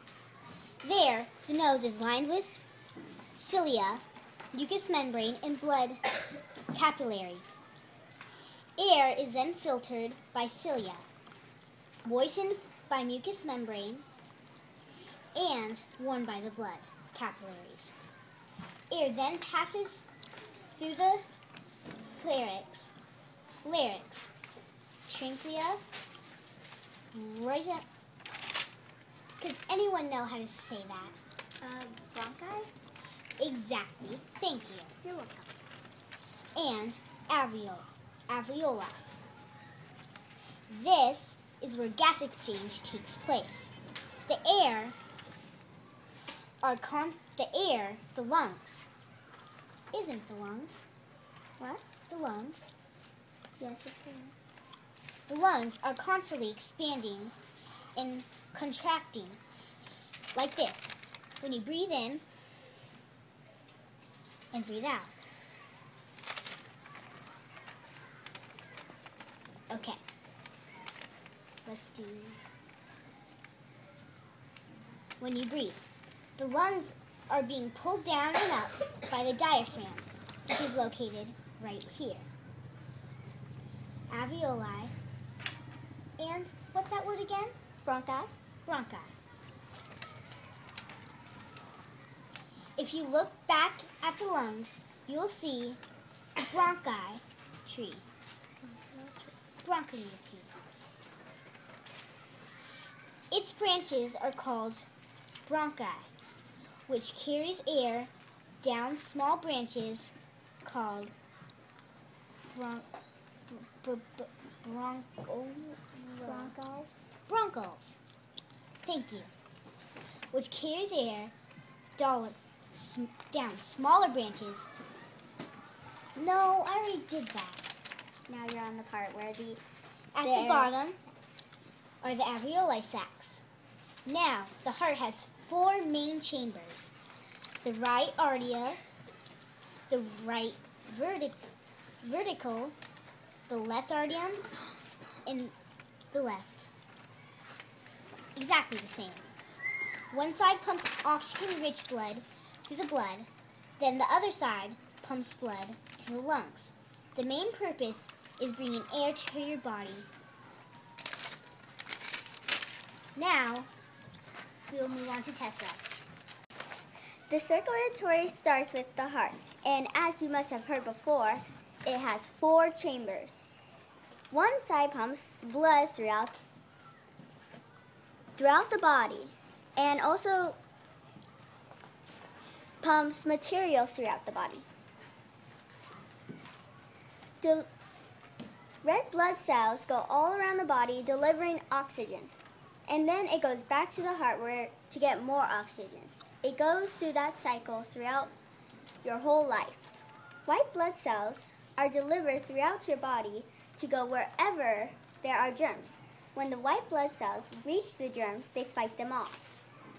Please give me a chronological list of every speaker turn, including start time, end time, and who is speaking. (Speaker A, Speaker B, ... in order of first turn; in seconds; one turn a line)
Speaker A: 0.8-2.6
Speaker A: 3.4-6.0
Speaker A: 6.7-7.5
Speaker A: 8.8-11.1
Speaker A: 12.0-14.1
Speaker A: 15.3-17.9
Speaker A: 18.9-20.1
Speaker A: 20.7-21.2
Speaker A: 22.0-22.9
Speaker A: 23.6-24.3
Speaker A: 25.1-25.8
Speaker A: 27.1-27.9
Speaker A: 29.4-31.2
Speaker B: 31.6-32.7
Speaker A: 33.4-34.9
Speaker B: 35.0-35.5
Speaker A: 36.5-39.1
Speaker A: 40.7-43.7
Speaker A: 44.3-45.0
Speaker A: 46.6-48.9
Speaker A: 49.9-50.9
Speaker B: 51.6-51.8
Speaker A: 52.1-52.7
Speaker B: 53.6-54.3
Speaker A: 55.3-57.3
Speaker A: 58.0-59.4
Speaker A: 60.3-62.2
Speaker A: 64.5-65.1
Speaker A: 69.7-70.0
Speaker A: 71.7-72.4
Speaker A: 75.2-82.3
Speaker A: 84.1-84.9
Speaker A: 86.2-87.5
Speaker B: 87.8-88.3
Speaker A: 88.7-89.1
Speaker A: 92.8-95.8
Speaker A: 96.4-98.0
Speaker B: 98.6-99.3
Speaker A: 99.6-100.5
Speaker A: 103.3-104.9
Speaker A: 105.5-106.1
Speaker A: 106.9-108.1
Speaker A: 108.6-111.1
Speaker A: 112.5-112.9
Speaker A: 113.5-116.5
Speaker B: 116.2-117.1
Speaker A: 117.3-118.0
Speaker A: 118.8-119.3
Speaker A: 120.3-121.3
Speaker A: 122.0-124.7
Speaker A: 126.2-127.7
Speaker B: 128.3-129.6
Speaker A: 130.1-131.0
Speaker B: 130.2-130.7
Speaker A: 132.0-133.4
Speaker A: 134.1-136.9
Speaker A: 137.6-138.8
Speaker A: 139.9-141.4
Speaker A: 142.0-142.8
Speaker A: 143.5-144.4
Speaker A: 145.2-145.5
Speaker A: 146.1-146.7
Speaker A: 148.3-149.3
Speaker A: 150.1-160.1
Speaker A: 163.2-163.7
Speaker A: 164.7-165.9
Speaker B: 167.3-173.4
Speaker B: 174.3-176.4
Speaker B: 178.4-180.6
Speaker B: 182.8-184.7
Speaker B: 187.4-187.7
Speaker B: 188.8-192.3
Speaker B: 192.9-198.3
Speaker B: 199.0-199.9
Speaker B: 200.4-209.4